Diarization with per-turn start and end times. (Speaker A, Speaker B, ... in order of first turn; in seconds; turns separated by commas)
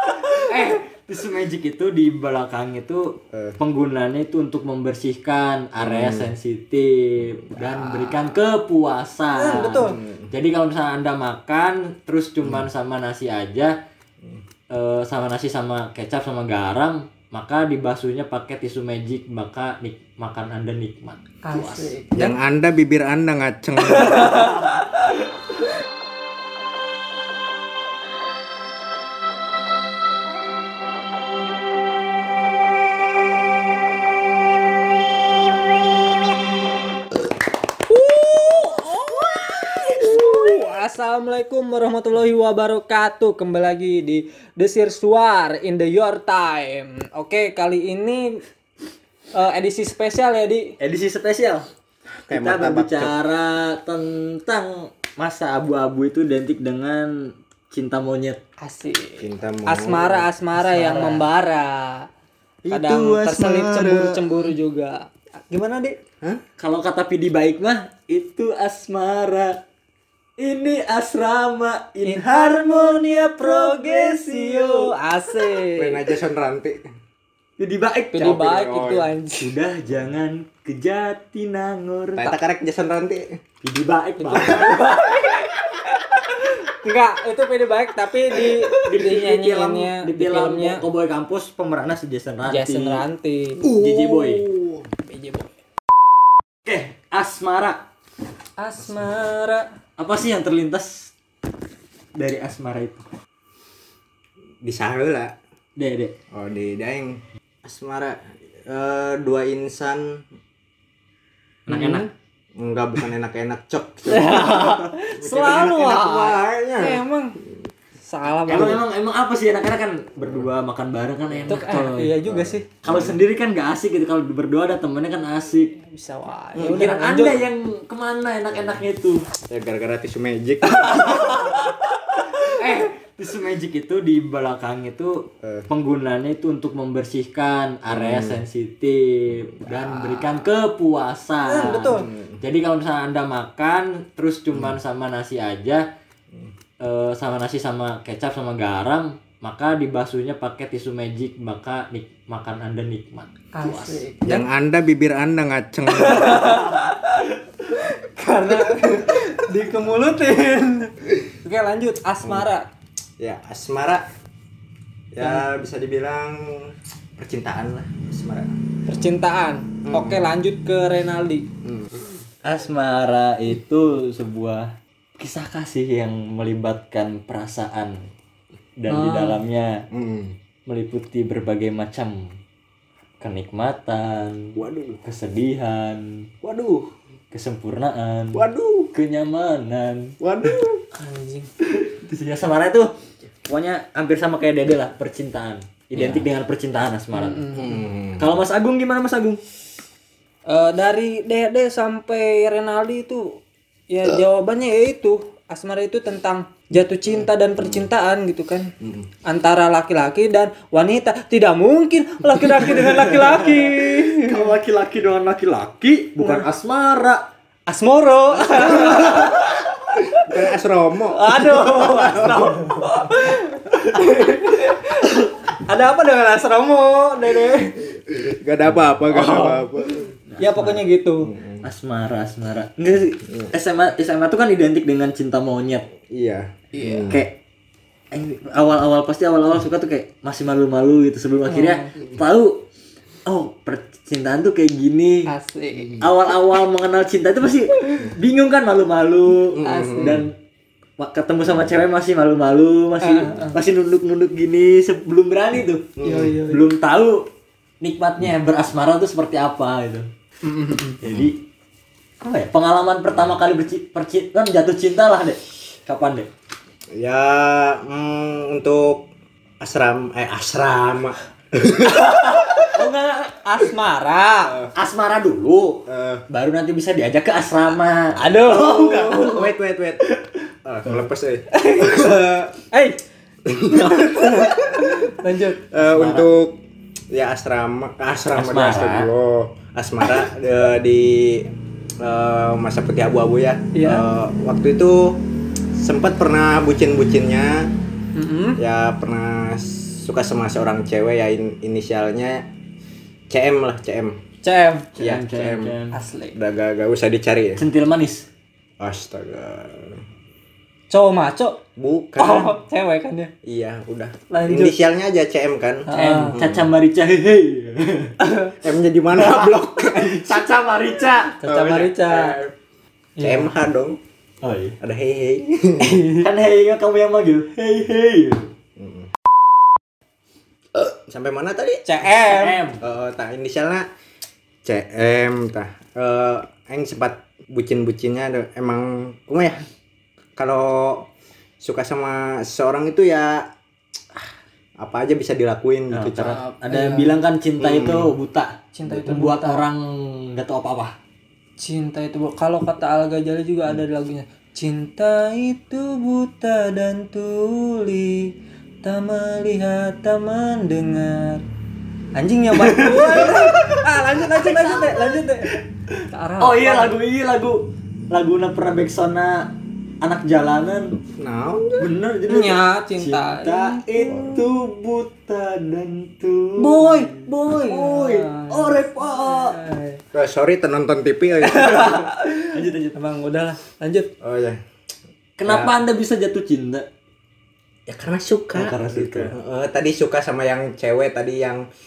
Speaker A: 0.4-13.8, Speaker B: 5.8-6.3, Speaker B: 7.5-8.2, Speaker C: 9.4-10.0, Speaker B: 9.9-10.3, Speaker B: 12.4-12.7, Speaker A: 14.7-21.9, Speaker C: 21.4-22.3, Speaker B: 22.1-24.6, Speaker C: 23.9-24.9, Speaker C: 37.9-48.4, Speaker C: 49.3-50.8, Speaker A: 50.8-51.7, Speaker B: 52.3-53.2, Speaker A: 52.3-58.4, Speaker C: 58.6-62.1, Speaker B: 59.2-60.3, Speaker A: 60.6-61.2, Speaker A: 62.7-64.2, Speaker C: 62.7-66.0, Speaker A: 66.6-69.6, Speaker A: 70.4-74.9, Speaker C: 72.0-76.0, Speaker B: 75.8-76.8, Speaker A: 77.6-78.4, Speaker C: 78.1-79.5, Speaker B: 78.2-79.1, Speaker A: 79.4-82.3, Speaker B: 82.2-83.3, Speaker A: 83.6-84.8, Speaker C: 84.2-90.8, Speaker B: 84.3-84.8, Speaker A: 88.8-93.0, Speaker C: 92.5-93.7, Speaker B: 93.6-94.9, Speaker A: 93.7-94.5, Speaker C: 95.0-95.5, Speaker A: 96.7-97.8, Speaker C: 98.6-99.7, Speaker A: 100.0-101.1, Speaker A: 102.2-103.0, Speaker B: 104.6-105.3, Speaker A: 105.8-106.2, Speaker B: 106.3-110.2, Speaker A: 111.7-112.1, Speaker C: 111.7-112.1, Speaker B: 112.6-117.0, Speaker C: 114.1-117.4, Speaker C: 118.1-118.8, Speaker A: 118.5-122.2, Speaker B: 120.2-120.5, Speaker C: 121.5-122.7, Speaker B: 122.2-123.2, Speaker A: 122.8-125.7, Speaker C: 125.7-127.4, Speaker B: 126.5-126.9, Speaker A: 126.6-129.2, Speaker B: 129.5-131.5, Speaker A: 130.9-131.6, Speaker A: 132.4-145.9, Speaker C: 132.6-132.9, Speaker B: 137.9-138.4, Speaker B: 139.6-140.3, Speaker C: 141.4-142.1, Speaker B: 141.9-142.4, Speaker A: 146.8-154.1, Speaker C: 153.6-154.4, Speaker B: 154.2-156.6, Speaker C: 155.9-162.7, Speaker B: 158.5-159.2, Speaker B: 163.2-164.1, Speaker B: 165.1-168.6, Speaker C: 165.2-165.5, Speaker C: 168.9-171.5, Speaker B: 169.8-170.3, Speaker B: 171.6-171.9, Speaker A: 172.4-178.1, Speaker A: 178.8-179.8, Speaker C: 178.9-179.4, Speaker B: 179.9-180.3, Speaker A: 180.7-182.4, Speaker A: 183.2-186.3, Speaker B: 184.6-185.0, Speaker B: 186.4-186.9, Speaker A: 187.3-190.2, Speaker B: 188.3-188.9, Speaker B: 190.2-190.8, Speaker C: 190.9-191.5, Speaker A: 191.6-192.9, Speaker A: 193.5-197.5, Speaker B: 196.0-196.2, Speaker C: 197.1-197.8, Speaker B: 197.5-198.3, Speaker A: 198.2-199.4, Speaker C: 200.5-203.4, Speaker C: 203.9-208.7, Speaker B: 207.1-207.9, Speaker B: 208.8-209.1, Speaker C: 209.2-214.6, Speaker A: 212.7-217.3, Speaker C: 216.2-216.5, Speaker C: 217.7-220.3, Speaker B: 218.4-219.4, Speaker A: 218.7-219.3, Speaker B: 220.1-222.8, Speaker C: 221.1-227.9, Speaker B: 227.9-230.1, Speaker C: 229.1-231.3, Speaker A: 230.3-230.8, Speaker B: 231.2-231.6, Speaker A: 231.6-235.9, Speaker B: 236.1-237.2, Speaker C: 236.7-237.1, Speaker A: 237.1-237.4, Speaker A: 238.1-242.6, Speaker C: 241.5-241.9, Speaker A: 243.3-245.3, Speaker C: 245.3-246.0, Speaker A: 246.0-250.3, Speaker B: 249.5-250.2, Speaker C: 249.6-250.2, Speaker A: 251.0-255.9, Speaker C: 253.0-253.6, Speaker B: 256.0-256.4, Speaker C: 256.0-256.7, Speaker A: 256.5-257.3, Speaker A: 257.8-260.1, Speaker B: 260.4-261.3, Speaker A: 261.0-261.4, Speaker A: 262.2-266.3, Speaker B: 266.9-269.1, Speaker B: 269.6-272.6, Speaker C: 272.2-272.7, Speaker A: 272.7-273.4, Speaker C: 273.4-274.6, Speaker A: 274.8-279.2, Speaker B: 275.9-276.2, Speaker C: 278.2-279.5, Speaker B: 278.4-280.1, Speaker B: 280.6-282.6, Speaker C: 281.5-282.1, Speaker C: 282.7-283.0, Speaker B: 283.4-286.6, Speaker C: 284.0-285.6, Speaker A: 285.8-286.3, Speaker B: 287.1-295.2, Speaker A: 288.3-289.1, Speaker C: 293.8-294.1, Speaker B: 295.8-297.7, Speaker C: 298.1-298.6, Speaker B: 298.6-302.5, Speaker B: 303.3-304.2, Speaker C: 304.4-304.9, Speaker A: 305.0-306.0, Speaker B: 305.0-305.8, Speaker C: 305.9-306.4, Speaker B: 306.3-307.6, Speaker A: 307.6-308.3, Speaker B: 308.8-310.0, Speaker C: 310.9-311.6, Speaker B: 311.8-312.6, Speaker C: 312.2-313.3, Speaker B: 313.4-316.7, Speaker C: 314.3-314.8, Speaker C: 315.9-316.4, Speaker A: 315.9-318.2, Speaker C: 318.2-318.6, Speaker B: 318.5-320.4, Speaker A: 319.1-321.4, Speaker C: 321.4-322.4, Speaker B: 321.4-322.6, Speaker C: 323.2-323.5, Speaker B: 323.2-324.0, Speaker A: 324.4-324.8, Speaker B: 324.8-326.1, Speaker C: 325.8-326.3, Speaker A: 326.1-328.5, Speaker B: 328.8-329.1, Speaker B: 330.9-333.9, Speaker C: 331.9-332.6, Speaker A: 332.3-332.8, Speaker B: 334.6-339.7, Speaker B: 340.4-341.1, Speaker B: 341.6-343.5, Speaker B: 344.8-346.4, Speaker A: 345.9-350.9, Speaker C: 346.3-347.2, Speaker B: 347.6-348.1, Speaker C: 348.7-349.6, Speaker C: 351.6-361.4, Speaker C: 362.1-365.5, Speaker A: 362.5-363.7, Speaker A: 364.4-369.5, Speaker C: 366.1-366.9, Speaker A: 370.0-370.9, Speaker B: 371.2-371.9, Speaker A: 371.8-379.6, Speaker C: 372.3-374.3, Speaker B: 374.1-374.4, Speaker C: 376.6-380.0, Speaker B: 380.1-382.0, Speaker C: 381.4-384.1, Speaker A: 381.6-383.0, Speaker B: 384.2-384.6, Speaker A: 385.4-386.9, Speaker B: 385.4-385.7, Speaker B: 387.9-391.6, Speaker A: 388.5-389.3